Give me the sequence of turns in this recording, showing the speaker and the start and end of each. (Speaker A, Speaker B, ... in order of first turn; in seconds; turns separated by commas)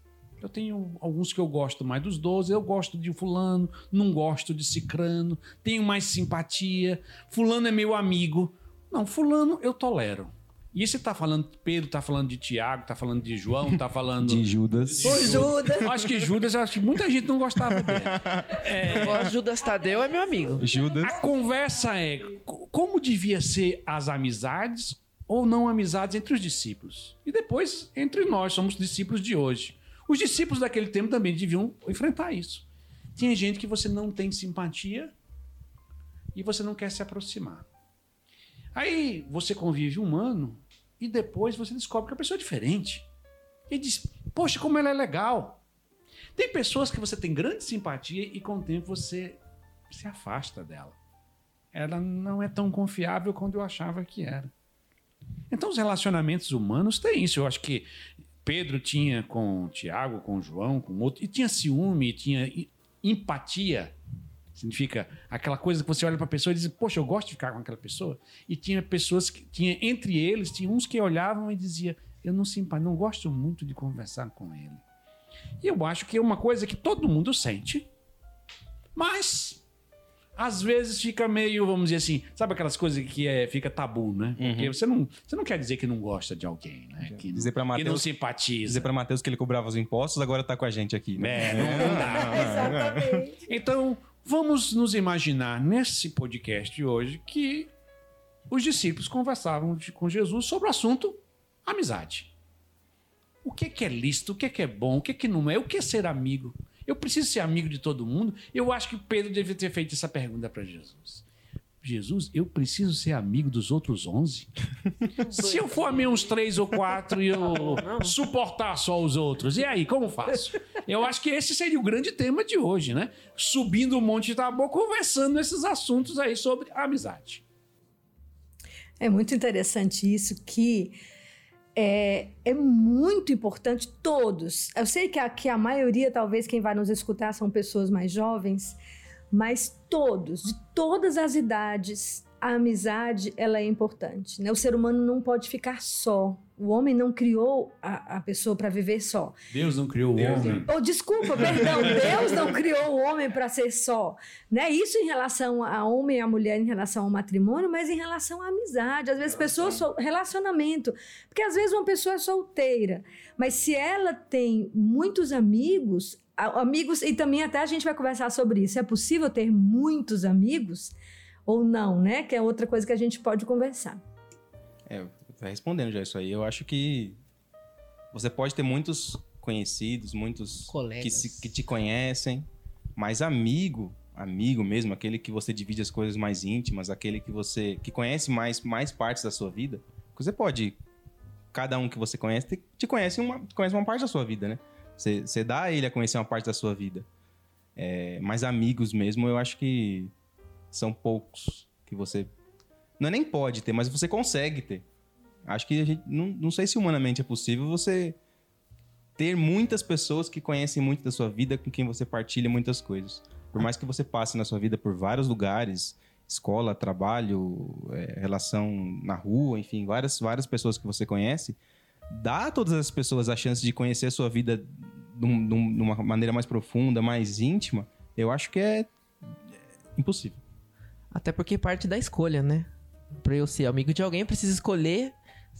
Speaker A: 0.4-19.3, Speaker B: 14.2-16.1, Speaker C: 15.0-15.9, Speaker B: 17.6-19.3, Speaker C: 18.9-20.7, Speaker B: 20.6-21.3, Speaker A: 21.0-35.1, Speaker A: 36.3-37.7, Speaker A: 38.7-43.1, Speaker A: 43.7-45.6, Speaker A: 46.4-49.4, Speaker A: 49.9-51.0, Speaker A: 51.7-54.5, Speaker A: 55.5-57.9, Speaker A: 58.4-64.0, Speaker A: 64.5-74.8, Speaker A: 75.6-77.9, Speaker A: 79.0-79.6, Speaker A: 80.4-88.9, Speaker B: 84.4-84.8, Speaker B: 87.1-88.1, Speaker B: 88.7-93.2, Speaker A: 91.2-92.8, Speaker D: 91.9-93.4, Speaker A: 93.5-97.7, Speaker A: 98.5-102.3, Speaker A: 103.4-111.2, Speaker A: 111.8-114.5, Speaker C: 115.2-116.4, Speaker A: 115.3-127.4, Speaker C: 117.2-118.1, Speaker D: 129.0-131.0, Speaker D: 131.8-138.8, Speaker D: 139.3-149.4, Speaker A: 149.5-150.7, Speaker D: 150.7-170.9, Speaker D: 171.5-174.0, Speaker B: 174.9-177.2, Speaker B: 178.1-190.8, Speaker C: 180.7-181.5, Speaker B: 191.5-197.1, Speaker B: 197.8-200.1, Speaker B: 200.7-202.3, Speaker B: 203.0-204.8, Speaker B: 205.5-208.2, Speaker B: 209.2-221.6, Speaker B: 222.1-228.9, Speaker B: 230.0-230.4, Speaker C: 231.1-235.2